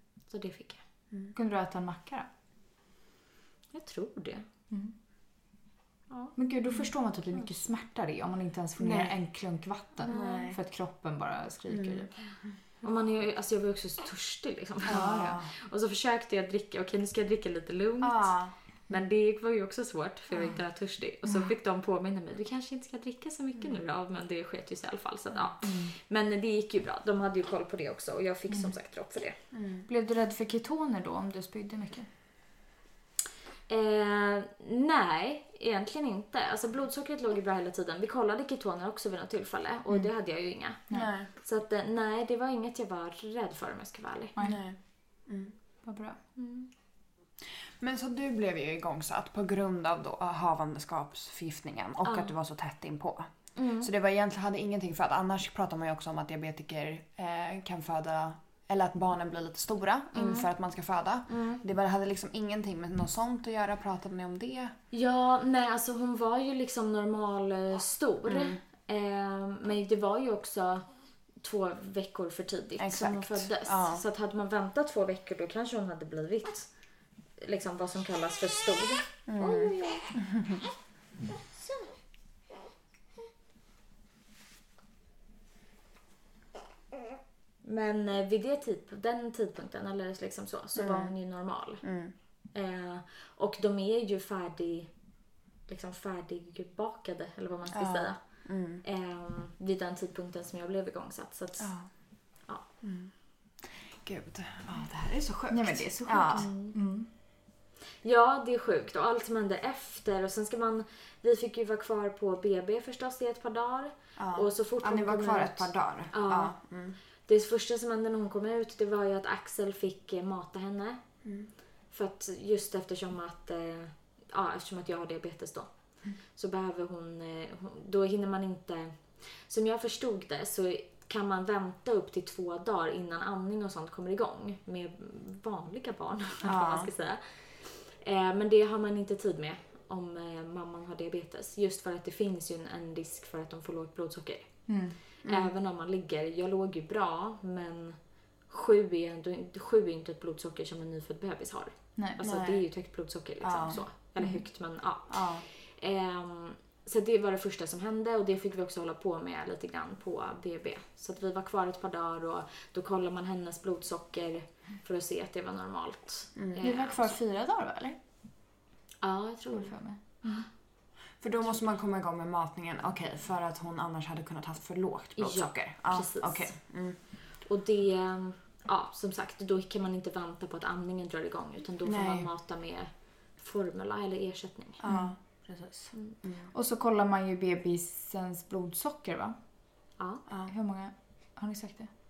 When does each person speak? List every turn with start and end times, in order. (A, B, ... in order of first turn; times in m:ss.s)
0:00.3-0:00.8 A
0:01.3-0:02.3 B
0:03.7-0:04.4 A
0:06.1-0:06.3 A
0:06.4-0:12.1 B
0:08.8-0:09.1 C
0:10.0-0:10.5 A
0:10.1-0:10.6 C
0:11.7-0:12.1 C
0:12.8-0:29.4 A
0:14.8-0:15.5 C
0:14.9-0:15.4 B
0:18.0-0:18.5 C
0:25.6-0:25.9 B
0:29.5-0:29.8 C
0:29.9-0:32.1 B
0:33.7-0:44.4 A
0:40.9-0:41.3 C
0:44.4-0:44.6 B
0:44.4-0:45.5 C
0:45.8-0:46.2 B
0:46.4-0:46.7 A
0:47.6-1:04.7 C
0:52.0-0:52.3 A
0:53.5-0:53.9 A
1:00.1-1:00.5 A
1:01.3-1:01.6 A
1:04.9-1:10.8 A
1:08.2-1:08.6 C
1:11.4-1:16.7 A
1:12.8-1:14.0 C
1:17.4-1:20.1 A
1:19.3-1:20.6 C
1:21.5-1:21.9 A
1:27.6-1:31.8 A
1:30.8-1:31.1 C
1:31.8-1:32.1 C
1:32.5-1:34.9 A
1:35.7-1:41.7 A
1:37.7-1:38.8 C
1:41.6-1:41.9 C
1:42.3-1:42.6 A
1:42.8-1:46.5 C
1:45.5-1:47.1 B
1:46.3-1:46.8 A
1:48.0-1:56.6 A
1:54.2-1:57.0 C
1:57.2-2:01.0 A
2:01.2-2:01.5 C
2:01.9-2:05.7 A
2:06.3-2:24.5 A
2:16.4-2:16.9 C
2:24.7-2:25.0 B
2:25.2-2:25.5 C
2:25.2-2:47.1 A
2:32.2-2:32.6 C
2:33.4-2:33.8 C
2:35.1-2:35.5 C
2:46.4-2:46.6 C
2:46.6-2:48.0 B
2:49.0-2:49.7 A
2:49.5-2:50.4 B
2:51.2-2:57.0 C
2:55.2-2:56.6 A
2:57.4-3:04.8 A
3:01.8-3:02.3 C
3:04.8-3:05.2 C
3:04.8-3:05.9 B
3:06.2-3:06.5 C
3:06.5-3:09.4 B
3:10.0-3:10.2 A
3:10.5-3:11.9 B